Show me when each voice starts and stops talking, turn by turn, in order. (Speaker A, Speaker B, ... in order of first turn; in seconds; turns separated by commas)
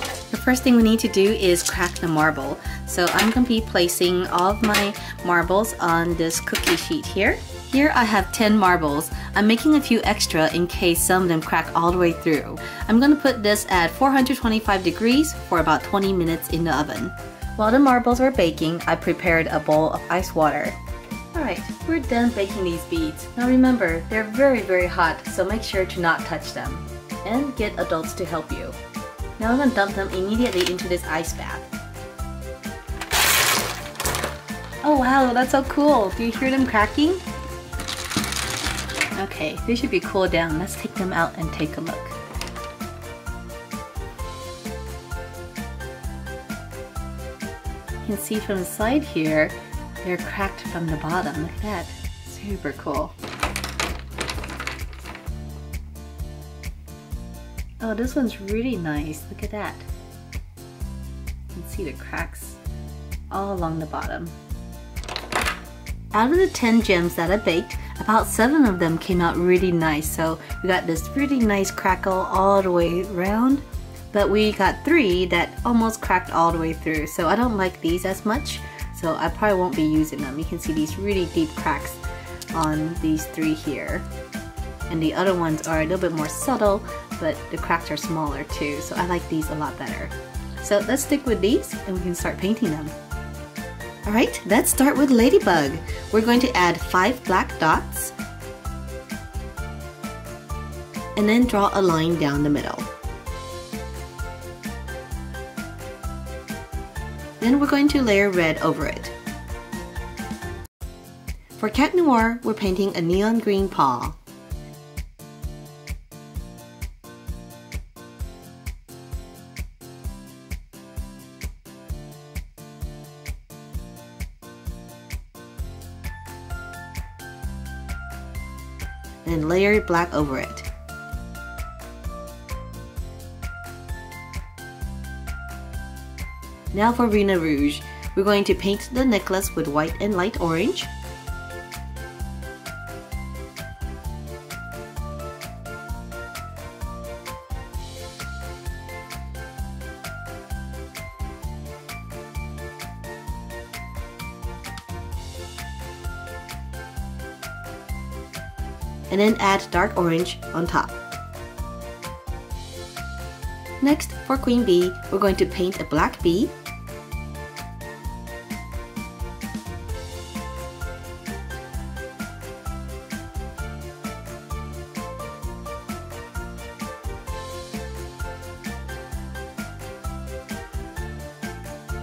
Speaker A: 0.3-20.8, Speaker A: 21.3-28.8, Speaker A: 29.4-31.7, Speaker A: 34.8-37.2, Speaker A: 39.1-42.1, Speaker A: 48.0-53.1, Speaker A: 57.8-59.9, Speaker A: 61.5-62.6, Speaker A: 63.3-64.3, Speaker A: 66.1-82.0, Speaker A: 82.5-84.0, Speaker A: 84.9-92.9, Speaker A: 94.0-98.1, Speaker A: 101.2-102.9, Speaker A: 107.4-109.1, Speaker A: 111.6-114.2, Speaker A: 129.2-130.7, Speaker A: 136.7-140.9, Speaker A: 159.1-160.9, Speaker A: 163.8-166.5